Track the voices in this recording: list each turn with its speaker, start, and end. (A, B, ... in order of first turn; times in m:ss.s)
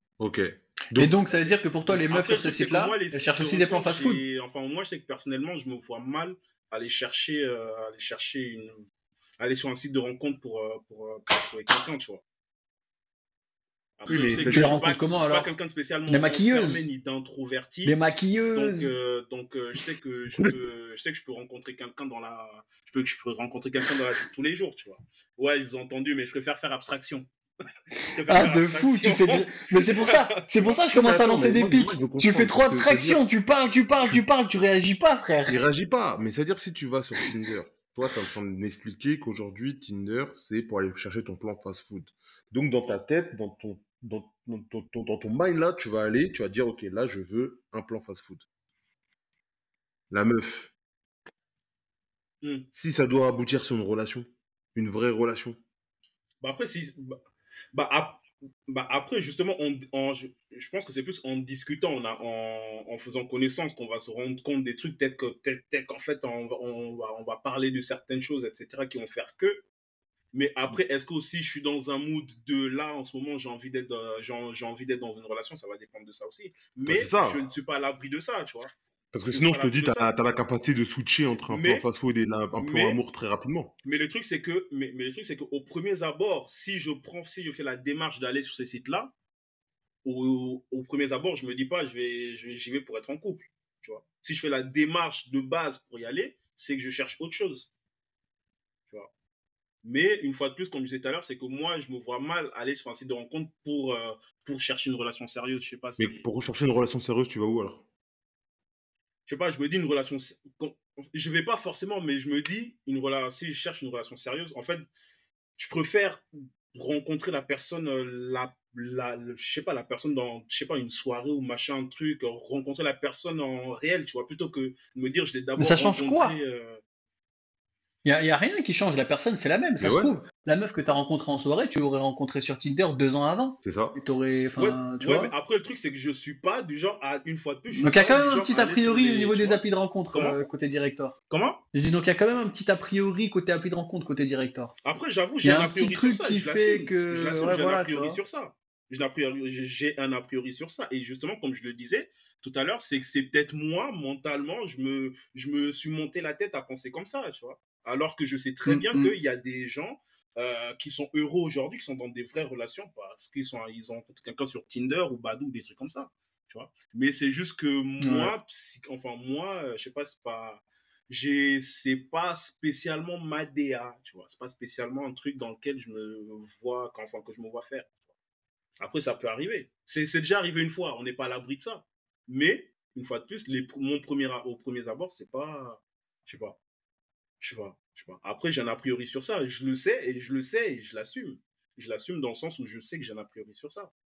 0:00.2-0:01.2 A
0:00.9-0:04.2 B
0:01.9-0:08.9 C
0:09.4-0:12.2 C
0:14.0-0:18.0 C
0:14.1-0:14.8 A
0:14.4-0:15.5 B
0:16.1-0:16.9 B
0:17.8-0:18.9 B
0:18.5-0:27.3 C
0:28.1-0:30.8 C
0:28.3-0:35.6 B
0:30.9-0:33.2 A
0:35.5-0:48.4 A
0:50.1-0:50.7 A
0:52.4-0:52.7 C
0:52.7-0:55.6 A
0:56.4-0:57.2 C
0:57.7-1:09.6 C
1:10.3-1:18.7 C
1:16.8-1:17.5 A
1:19.1-1:23.7 A
1:19.3-1:20.4 C
1:21.5-1:21.8 C
1:22.6-1:23.0 C
1:23.8-1:29.1 C
1:30.0-1:37.7 C
1:39.8-1:46.2 C
1:46.0-1:47.8 A
1:49.3-1:54.8 C
1:55.6-2:06.8 C
2:05.6-2:06.4 B
2:08.0-2:15.3 B
2:09.8-2:10.1 A
2:13.6-2:14.0 A
2:14.6-2:20.4 C
2:17.7-2:21.2 B
2:21.3-2:21.6 C
2:21.7-2:24.7 B
2:24.8-2:57.9 C
2:25.4-2:28.2 B
2:38.6-2:39.1 B
2:48.0-2:48.3 B
2:58.8-3:06.6 C
3:07.4-3:13.9 C